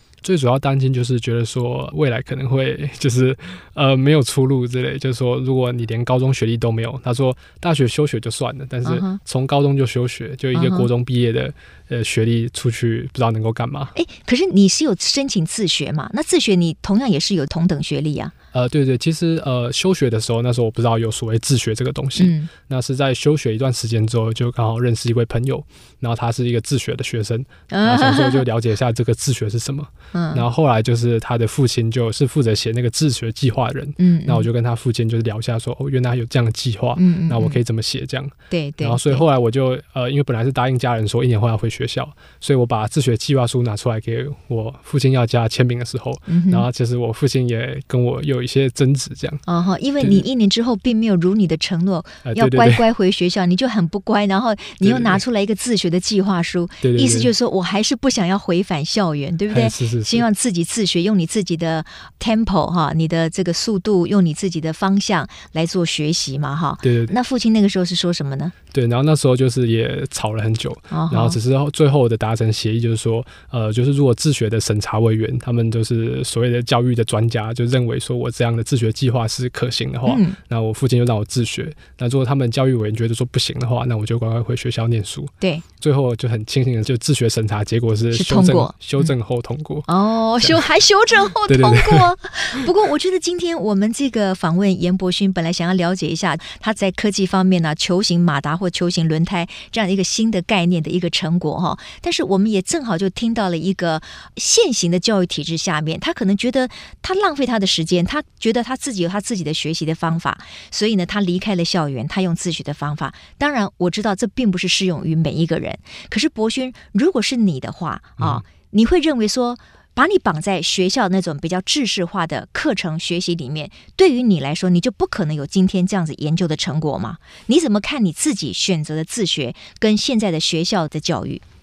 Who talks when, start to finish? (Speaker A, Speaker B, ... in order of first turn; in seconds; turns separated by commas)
Speaker A: 0.2-13.9, Speaker B: 8.8-9.2, Speaker B: 10.5-10.9, Speaker B: 13.9-18.3, Speaker A: 18.5-49.4, Speaker B: 22.2-22.5, Speaker B: 27.7-28.4, Speaker B: 30.1-30.4, Speaker B: 34.0-34.5, Speaker B: 37.0-37.6, Speaker B: 38.5-39.2, Speaker B: 46.3-46.6, Speaker B: 49.5-68.5, Speaker A: 52.2-52.9, Speaker A: 54.8-55.2, Speaker A: 56.8-57.3, Speaker A: 59.5-60.2, Speaker A: 66.8-67.1, Speaker A: 68.7-89.9, Speaker B: 70.9-71.4, Speaker B: 80.0-80.4, Speaker B: 88.1-89.1, Speaker B: 89.9-131.4, Speaker A: 91.5-92.1, Speaker A: 118.2-118.4